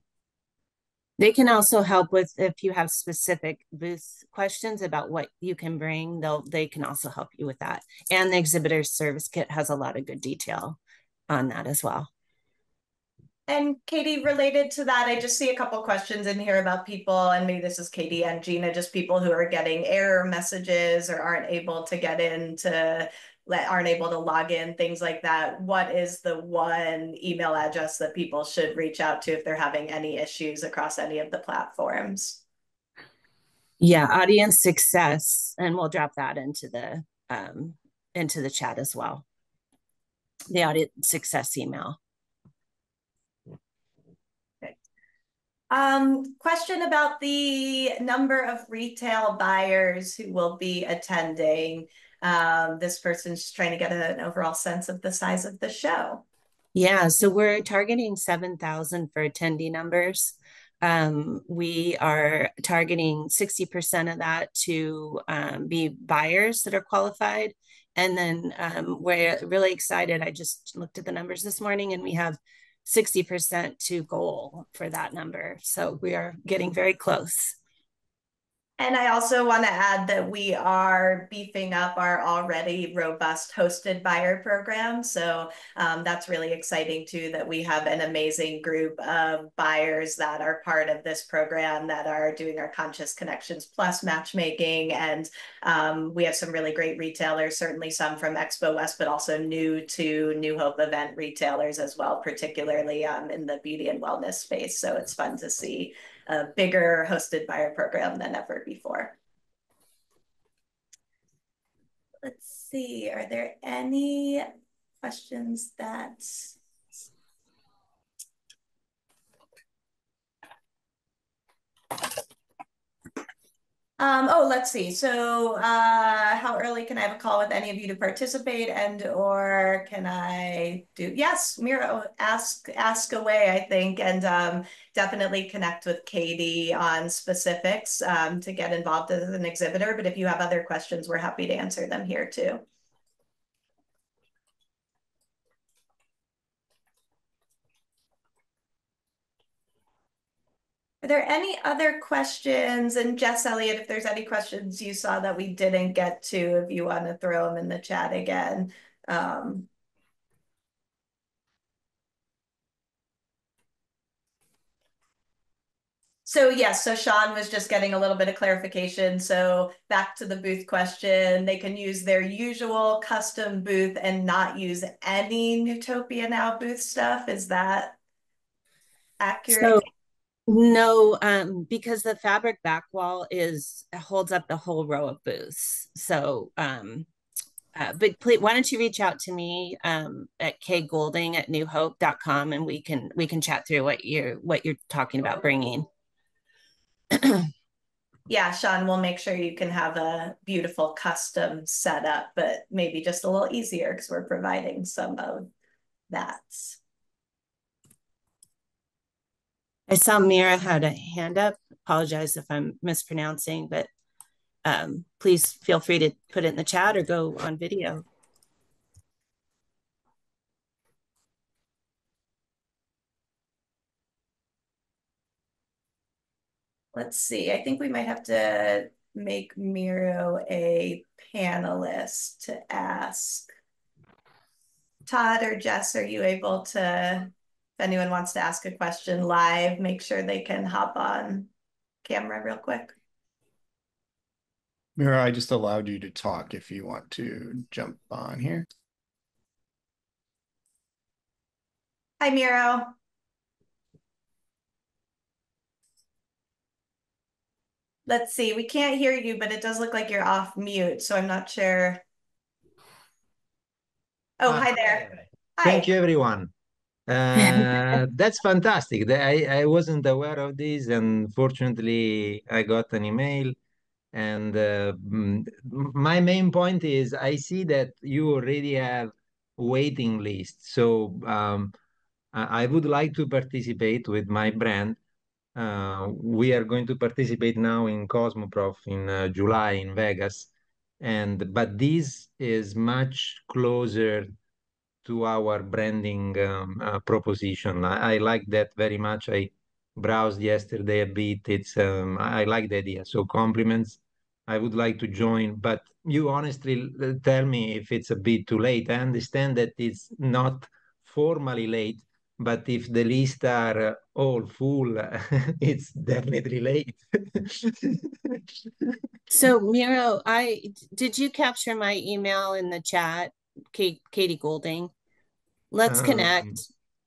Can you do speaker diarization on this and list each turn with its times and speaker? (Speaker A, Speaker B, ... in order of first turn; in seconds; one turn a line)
Speaker A: 1.2-12.1
Speaker B: 13.5-32.4
Speaker A: 33.8-39.2
Speaker A: 40.5-42.0
Speaker B: 45.7-56.2
Speaker A: 56.7-77.5
Speaker B: 78.8-109.2
Speaker B: 112.2-114.4
Speaker B: 115.0-116.5
Speaker B: 124.0-142.6
Speaker B: 151.0-159.7
Speaker B: 166.2-178.0
Speaker B: 179.2-179.8
Speaker A: 179.5-179.8
Speaker A: 180.5-187.1
Speaker A: 187.7-195.8
Speaker B: 198.3-205.5
Speaker B: 206.1-206.8
Speaker A: 209.9-213.9
Speaker A: 214.6-218.0
Speaker B: 226.9-233.4
Speaker B: 235.1-241.5
Speaker B: 242.0-242.9
Speaker C: 245.0-248.7
Speaker B: 252.2-252.9
Speaker B: 258.1-262.0
Speaker B: 264.4-265.0
Speaker D: 264.5-266.5
Speaker B: 265.6-265.9
Speaker D: 267.1-273.6
Speaker A: 267.4-268.0
Speaker D: 274.1-281.7
Speaker D: 282.3-285.0
Speaker D: 285.5-290.5
Speaker D: 291.0-294.3
Speaker D: 295.0-318.4
Speaker A: 319.3-324.9
Speaker A: 325.7-326.6
Speaker D: 325.9-326.6